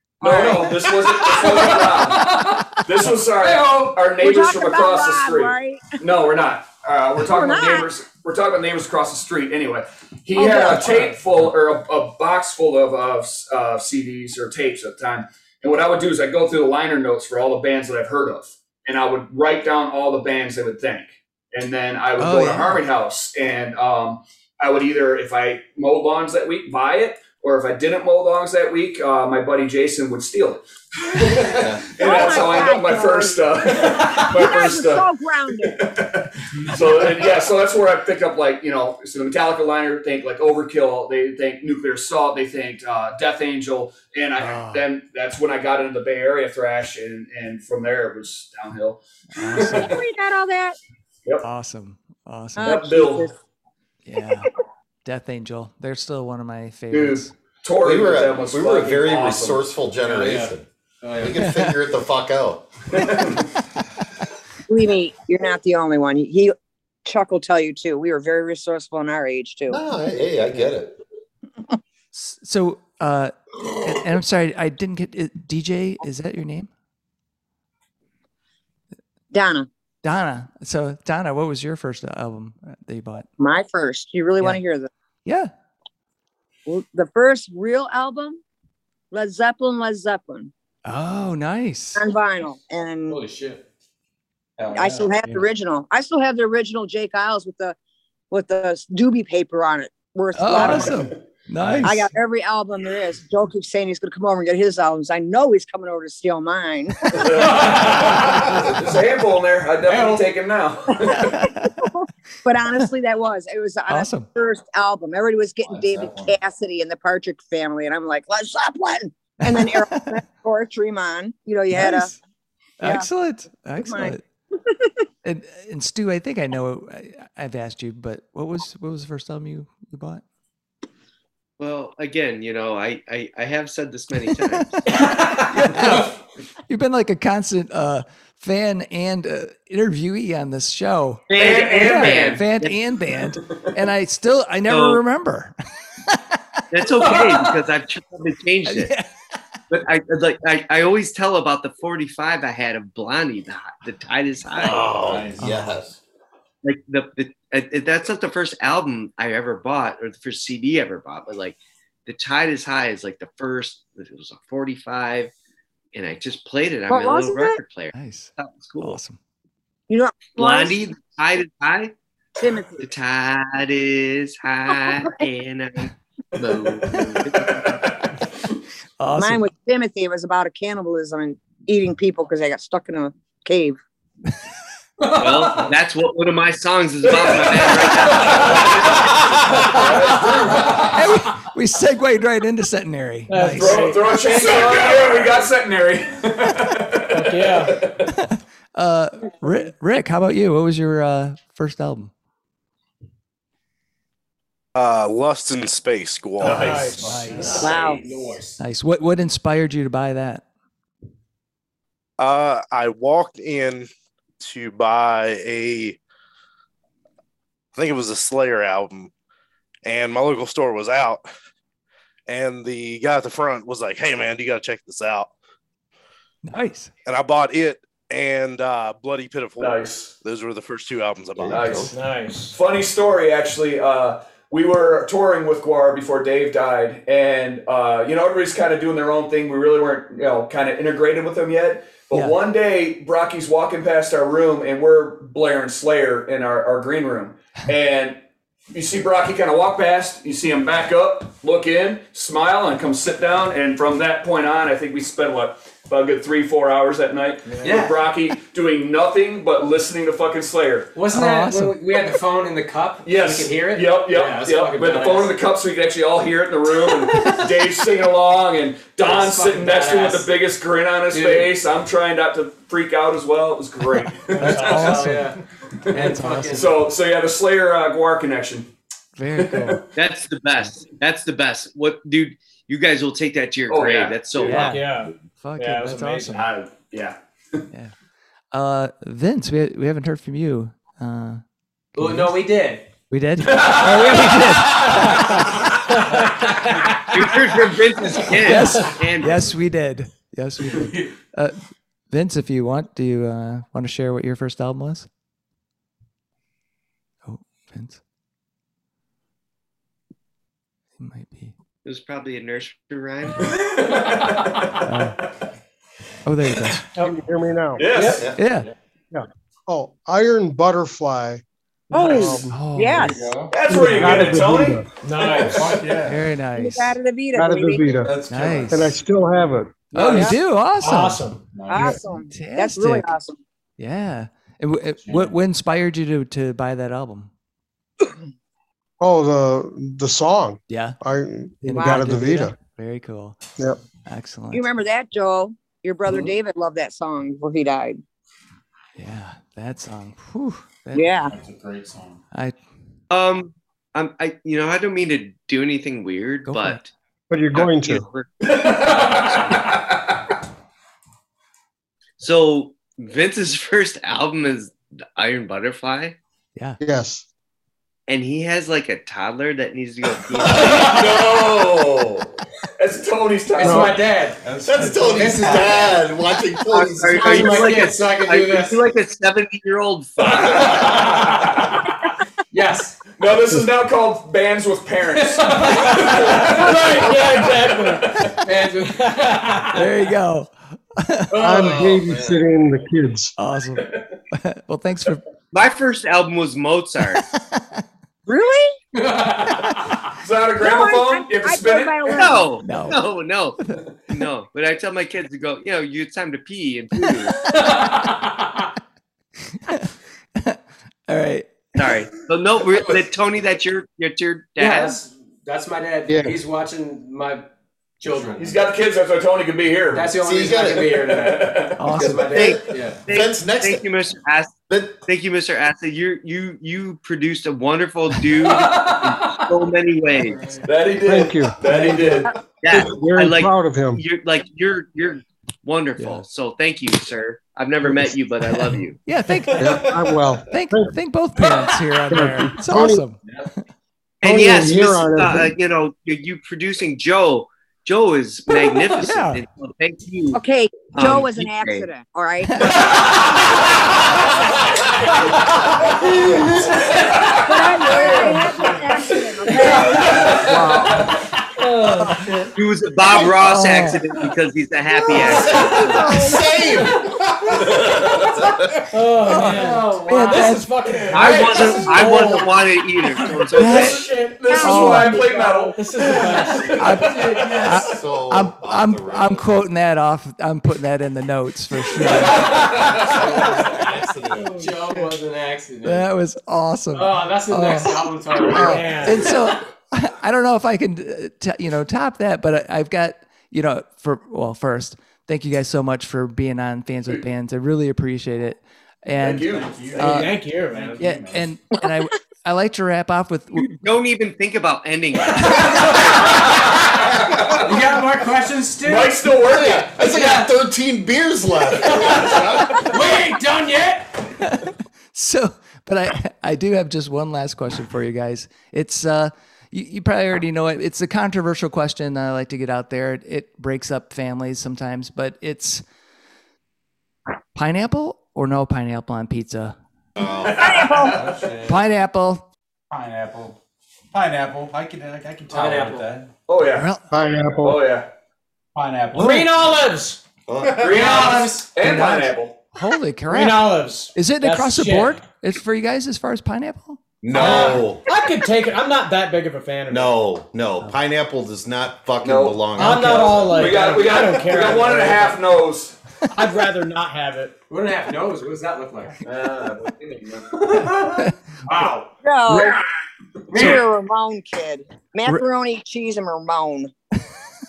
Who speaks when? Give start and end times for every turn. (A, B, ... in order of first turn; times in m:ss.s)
0:00.2-0:00.9 A
0:00.2-0:50.0 B
0:02.0-0:02.8 C
0:03.4-0:03.9 C
0:04.2-0:06.0 A
0:07.2-0:07.9 A
0:10.3-0:11.0 A
0:22.2-0:22.8 D
0:31.4-0:31.8 E
0:32.0-0:33.4 A
0:34.3-0:35.8 A
0:36.5-0:37.3 F
0:44.4-0:44.8 D
0:49.3-0:50.0 D
0:49.8-0:50.8 A
0:51.4-0:52.8 D
0:52.6-0:53.3 A
0:52.6-0:53.3 B
0:54.0-0:54.5 D
0:55.0-0:57.3 D
0:56.9-0:59.6 B
0:57.8-1:00.7 E
1:00.0-1:01.4 C
1:01.2-1:03.0 E
1:01.4-1:01.8 D
1:02.9-1:03.4 B
1:04.7-1:06.5 A
1:07.0-1:09.8 A
1:09.7-1:10.9 E
1:12.1-1:16.7 D
1:19.3-1:19.7 A
1:20.0-1:23.3 D
1:23.4-1:24.9 A
1:25.2-1:25.5 D
1:26.6-1:28.4 A
1:29.1-1:30.5 A
1:30.8-1:32.0 D
1:31.9-1:33.2 A
1:33.1-1:33.6 C
1:34.6-1:35.1 F
1:34.7-1:37.8 A
1:38.3-1:41.1 A
1:40.3-1:42.0 D
1:40.6-1:41.0 B
1:41.6-1:42.0 F
1:41.8-1:47.1 A
1:47.1-1:51.4 B
1:47.5-1:47.8 C
1:51.1-1:51.9 D
1:51.4-2:02.1 A
1:53.9-1:54.3 D
1:55.7-1:56.3 F
1:59.4-2:00.1 D
2:01.7-2:02.2 D
2:02.8-2:04.2 D
2:02.8-2:03.1 A
2:03.8-2:04.9 A
2:05.2-2:10.2 D
2:11.6-2:14.8 G
2:14.9-2:16.0 C
2:15.5-2:16.1 D
2:16.7-2:25.5 D
2:21.3-2:22.8 G
2:21.4-2:22.3 B
2:21.4-2:22.1 C
2:24.7-2:25.0 G
2:26.7-2:28.9 G
2:27.0-2:27.4 C
2:28.7-2:29.1 D
2:29.7-2:34.8 G
2:34.6-2:36.0 E
2:34.6-2:35.7 F
2:35.4-2:35.7 D
2:36.6-2:45.3 G
2:45.9-2:49.0 G
2:46.9-2:47.6 A
2:47.9-2:49.2 D
2:49.9-2:50.8 A
2:50.3-2:51.9 G
2:52.4-2:52.8 A
2:52.8-2:57.8 G
2:57.5-2:58.1 B
2:59.0-2:59.5 D
2:59.1-3:03.8 A
3:05.0-3:05.7 C
3:05.2-3:08.8 G
3:07.0-3:09.1 B
3:09.8-3:10.9 B
3:10.1-3:10.6 E
3:10.9-3:13.9 D
3:13.3-3:14.5 H
3:13.6-3:18.1 B
3:14.4-3:15.0 F
3:17.1-3:17.8 H
3:18.1-3:22.1 D
3:24.7-3:26.9 I
3:26.4-3:28.0 F
3:26.4-3:27.0 H
3:26.5-3:27.6 D
3:27.3-3:28.6 C
3:27.6-3:28.0 A
3:28.6-3:30.4 D
3:32.2-3:33.9 I
3:34.4-3:36.0 I
3:37.7-3:39.1 I
3:39.8-3:41.2 I
3:42.3-3:45.3 I
3:46.4-3:46.9 D
3:47.0-3:51.8 I
3:49.6-3:50.1 B
3:51.4-3:51.9 E
3:51.5-3:51.9 B
3:51.9-3:52.6 H
3:52.5-4:08.2 B
4:08.7-4:20.9 B
4:17.6-4:17.9 C
4:20.9-4:25.4 C
4:21.1-4:21.8 D
4:23.0-4:35.0 B
4:29.0-4:30.3 C
4:31.1-4:31.5 C
4:34.3-4:35.4 C
4:34.4-4:35.3 D
4:35.9-4:36.8 D
4:36.0-4:36.7 C
4:36.5-4:38.7 B
4:39.2-4:39.8 D
4:39.4-4:39.7 B
4:39.9-4:45.0 G
4:43.7-4:44.7 B
4:44.4-4:46.5 D
4:44.6-4:46.3 H
4:46.3-4:47.6 B
4:48.5-4:51.4 D
4:51.9-4:52.8 C
4:52.0-4:52.3 D
4:53.1-4:55.4 D
4:53.6-4:55.0 C
4:56.9-4:57.3 F
4:57.1-4:59.4 G
4:58.4-5:01.6 D
5:02.1-5:05.1 D
5:07.2-5:08.0 D
5:11.0-5:11.5 D
5:11.8-5:13.6 G
5:13.6-5:14.5 B
5:14.8-5:15.2 D
5:16.2-5:16.9 D
5:17.0-5:17.9 J
5:17.8-5:18.2 B
5:17.8-5:18.2 H
5:18.1-5:18.4 E
5:18.3-5:18.7 F
5:18.4-5:18.7 D
5:19.1-5:21.4 J
5:21.9-5:23.2 A
5:21.9-5:22.6 J
5:22.5-5:24.4 D
5:23.0-5:23.6 F
5:23.5-5:26.0 B
5:23.7-5:24.9 J
5:25.0-5:25.8 H
5:25.4-5:26.3 F
5:26.0-5:27.0 D
5:26.6-5:28.0 A
5:27.3-5:29.9 J
5:28.0-5:28.8 F
5:28.3-5:28.9 D
5:29.9-5:31.3 D
5:30.0-5:31.4 H
5:30.0-5:30.4 A
5:31.5-5:32.0 F
5:31.7-5:33.4 A
5:32.3-5:33.1 D
5:33.8-5:37.3 D
5:35.0-5:35.3 F
5:39.0-5:42.6 J
5:40.7-5:41.0 D
5:41.6-5:43.4 D
5:44.0-5:44.7 D
5:44.5-5:48.0 A
5:49.0-5:51.1 D
5:50.9-5:51.3 A
5:51.3-5:52.2 F
5:53.1-5:56.8 G
5:56.4-5:56.9 D
5:57.3-5:58.1 J
5:57.5-5:58.6 G
5:58.5-5:59.7 B
6:02.2-6:06.2 G
6:06.5-6:06.8 D
6:06.8-6:07.2 J
6:08.1-6:11.0 G
6:10.6-6:14.0 B
6:10.8-6:12.0 E
6:13.6-6:14.4 C
6:13.6-6:14.0 J
6:14.4-6:16.0 F
6:14.6-6:17.8 E
6:15.0-6:16.0 C
6:16.7-6:20.7 G
6:17.2-6:18.8 C
6:20.2-6:21.9 C
6:20.2-6:21.7 B
6:22.5-6:23.0 C
6:23.2-6:28.3 B
6:25.2-6:27.3 C
6:26.1-6:28.1 H
6:28.4-6:29.9 C
6:28.8-6:29.6 H
6:29.7-6:31.4 D
6:31.3-6:32.2 C
6:31.4-6:33.3 J
6:33.4-6:35.2 D
6:35.5-6:37.2 G
6:37.3-6:37.6 D
6:38.3-6:38.7 A
6:39.0-6:40.0 C
6:40.2-6:42.3 B
6:40.6-6:42.5 A
6:42.1-6:43.6 G
6:42.6-6:43.0 D
6:44.1-6:47.4 G
6:47.5-6:48.7 C
6:49.7-6:51.8 D
6:51.8-6:55.0 G
6:54.6-6:57.5 C
6:56.1-6:56.4 J
6:58.0-6:58.5 C
6:58.4-7:01.8 B
6:59.9-7:03.0 C
7:00.2-7:01.0 E
7:01.8-7:02.4 D
7:02.3-7:10.4 G
7:03.1-7:03.8 E
7:04.7-7:05.0 E
7:08.6-7:09.0 C
7:10.2-7:10.6 F
7:10.6-7:12.3 B
7:11.0-7:14.0 J
7:12.6-7:19.0 G
7:16.0-7:16.2 D
7:18.4-7:23.2 D
7:19.6-7:21.0 J
7:22.1-7:23.1 J
7:23.2-7:23.5 F
7:24.2-7:25.5 J
7:24.2-7:31.9 G
7:29.0-7:29.4 D
7:30.3-7:33.3 A
7:32.4-7:32.8 D
7:35.0-7:41.1 B
7:37.4-7:40.6 A
7:39.6-7:40.4 C
7:40.5-7:41.0 D
7:41.6-7:42.5 H
7:42.5-7:46.0 G
7:43.4-7:44.0 D
7:45.1-7:48.6 E
7:47.7-7:48.3 B
7:48.9-7:52.6 H
7:49.2-7:50.6 C
7:49.2-7:50.7 D
7:51.1-7:54.0 G
7:51.1-7:52.0 B
7:51.2-7:52.0 F
7:53.4-7:57.8 B
7:53.5-7:55.2 H
7:53.5-7:54.0 D
7:54.5-7:55.7 A
7:54.6-7:55.2 D
7:55.7-7:56.8 H
7:56.7-8:02.5 D
7:57.1-7:57.6 C
7:57.7-7:59.5 E
8:02.0-8:03.2 B
8:02.5-8:04.6 E
8:02.9-8:03.8 C
8:04.5-8:06.1 C
8:05.8-8:20.4 D
8:06.9-8:09.6 C
8:08.6-8:09.3 H
8:19.2-8:20.2 B
8:19.5-8:20.1 F
8:20.0-8:21.0 H
8:20.7-8:21.5 F
8:21.0-8:23.7 D
8:23.6-8:25.7 G
8:25.4-8:29.2 C
8:28.8-8:30.1 B
8:29.5-8:33.0 E
8:30.0-8:30.5 C
8:31.8-8:34.2 C
8:34.4-8:45.8 D
8:47.5-8:49.8 D
8:50.2-8:51.1 E
8:50.4-8:51.2 B
8:50.6-8:51.2 A
8:50.9-8:51.8 F
8:51.6-8:52.5 D
8:52.9-8:53.6 F
8:54.1-8:56.3 F
8:55.5-8:56.1 C
8:56.5-8:56.9 B
8:56.7-8:57.1 D
8:57.1-8:57.8 J
8:57.6-8:58.1 B
8:58.7-8:59.5 F
8:59.1-9:00.2 H
9:00.5-9:01.0 E
9:00.8-9:02.5 B
9:00.8-9:01.7 C
9:01.8-9:07.0 D
9:03.3-9:05.2 H
9:07.2-9:08.0 E
9:07.3-9:10.2 H
9:07.4-9:07.8 C
9:09.9-9:13.6 E
9:12.2-9:16.0 B
9:12.8-9:15.4 H
9:16.3-9:17.6 H
9:17.7-9:19.2 C
9:19.2-9:20.5 B
9:20.5-9:22.8 C
9:22.2-9:22.8 A
9:23.5-9:23.8 C
9:23.5-9:23.8 D
9:23.5-9:26.9 A